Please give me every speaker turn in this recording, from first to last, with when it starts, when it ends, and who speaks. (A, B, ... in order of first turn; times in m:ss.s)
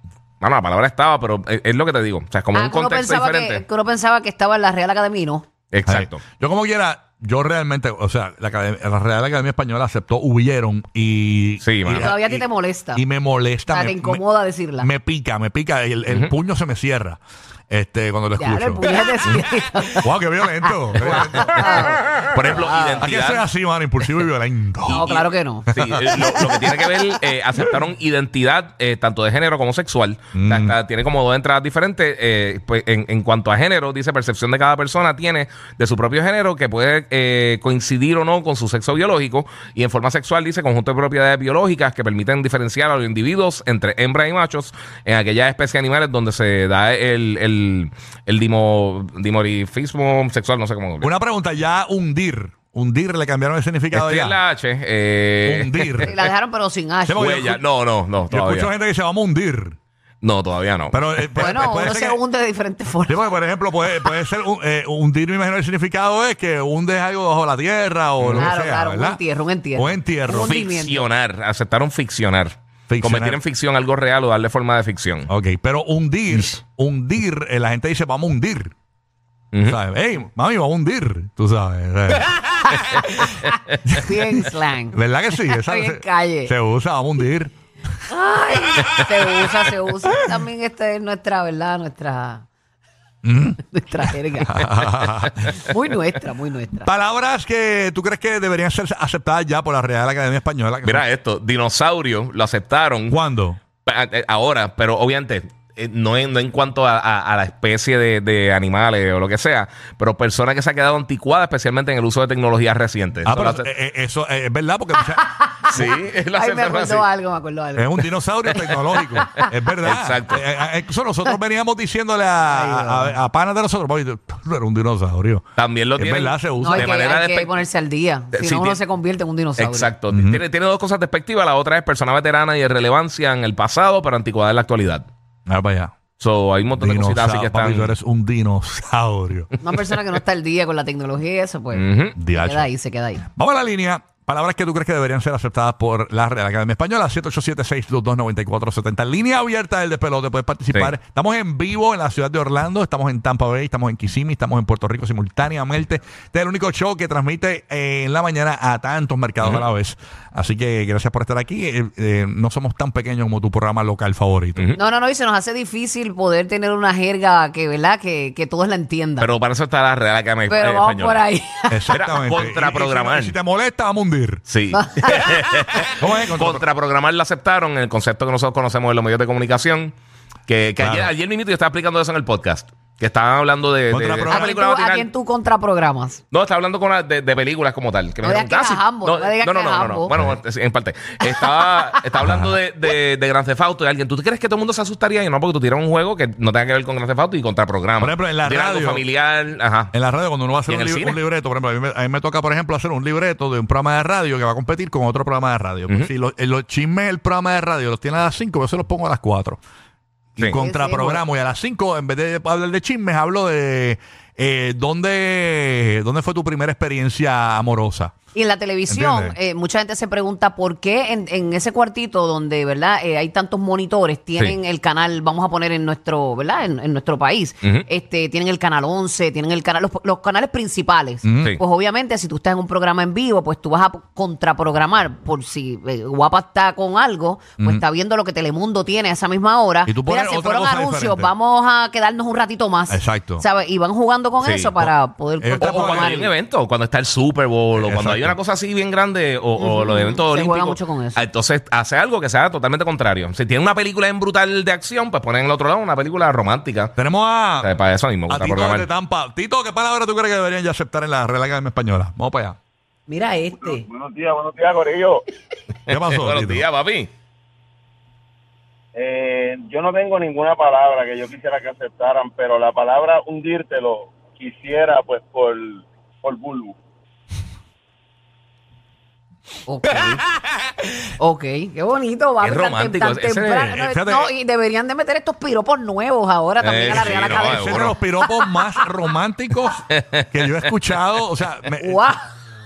0:00.4-0:03.6 A
0:02.5-0:05.4 B
0:05.7-0:06.2 A
0:05.9-0:14.2 C
0:11.6-0:12.2 A
0:11.9-0:13.0 B
0:13.7-0:14.9 B
0:14.8-0:18.9 C
0:16.1-0:16.3 A
0:18.4-0:20.1 B
0:20.0-0:21.9 C
0:21.0-0:23.1 B
0:21.1-0:23.5 A
0:23.0-0:25.0 C
0:24.9-0:25.7 B
0:24.9-0:51.1 A
0:25.7-0:26.5 C
0:30.3-0:30.7 C
0:51.0-0:54.4 C
0:53.9-0:56.1 A
0:55.4-0:56.1 C
0:56.0-0:57.3 B
0:57.0-0:57.6 C
0:57.1-0:58.7 A
0:58.3-0:59.8 C
1:00.2-1:01.5 A
1:00.9-1:02.2 C
1:01.4-1:03.2 B
1:03.0-1:09.2 C
1:08.2-1:08.5 A
1:08.3-1:11.0 B
1:09.7-1:10.5 C
1:10.3-1:15.3 A
1:12.9-1:13.4 C
1:15.3-1:18.7 C
1:19.5-1:19.8 A
1:19.6-1:22.4 C
1:23.8-1:24.4 C
1:24.0-1:26.5 B
1:24.9-1:27.5 C
1:28.1-1:32.4 B
1:33.2-1:33.6 C
1:33.6-1:34.6 B
1:34.4-1:35.6 C
1:35.6-1:36.9 B
1:36.8-1:41.0 C
1:40.8-1:43.2 A
1:43.1-1:43.6 C
1:43.8-1:53.7 A
1:53.2-1:55.9 C
1:55.0-1:58.0 B
1:55.7-1:57.1 A
1:57.7-2:05.4 C
1:59.4-2:00.4 A
2:02.4-2:03.2 B
2:05.6-2:07.6 A
2:06.0-2:06.9 C
2:06.6-2:09.9 B
2:08.3-2:08.8 A
2:09.6-2:15.1 A
2:10.1-2:10.4 C
2:15.5-2:15.9 C
2:16.2-2:17.9 A
2:16.8-2:19.5 C
2:19.6-2:23.3 B
2:21.7-2:22.2 A
2:22.2-2:22.7 C
2:23.3-2:44.7 C
2:39.4-2:39.7 A
2:44.7-2:49.3 B
2:49.2-2:51.2 A
2:50.5-2:52.0 B
2:51.7-2:54.4 C
2:51.9-2:53.4 A
2:54.5-2:59.9 A
2:54.7-2:55.2 B
2:56.0-2:56.6 C
3:00.5-3:05.1 A
3:00.8-3:01.1 C
3:03.9-3:04.5 C
3:04.3-3:06.2 B
3:06.3-3:19.9 A
3:08.2-3:10.2 B
3:11.2-3:11.8 B
3:12.2-3:12.6 C
3:18.0-3:19.0 C
3:19.9-3:29.6 C
3:20.6-3:21.2 A
3:30.4-3:38.1 C
3:30.6-3:31.2 B
3:38.3-4:06.3 B
3:38.9-3:39.4 C
3:51.2-3:51.6 C
3:57.6-3:57.8 C
3:59.8-4:01.3 C
4:02.9-4:03.4 C
4:04.4-4:04.9 A
4:05.4-4:06.3 C
4:05.6-4:16.9 A
4:07.8-4:08.4 C
4:09.6-4:11.2 B
4:17.0-4:17.7 C
4:17.6-4:18.9 A
4:18.3-4:22.6 C
4:23.1-4:23.8 B
4:23.6-4:25.2 D
4:25.9-4:27.1 A
4:25.9-4:26.7 C
4:28.9-4:36.8 D
4:39.7-4:40.2 B
4:41.2-4:48.6 B
4:42.4-4:43.8 A
4:43.7-4:44.3 C
4:46.6-4:48.0 A
4:46.9-4:52.0 C
4:49.9-4:50.6 A
4:51.8-4:52.2 B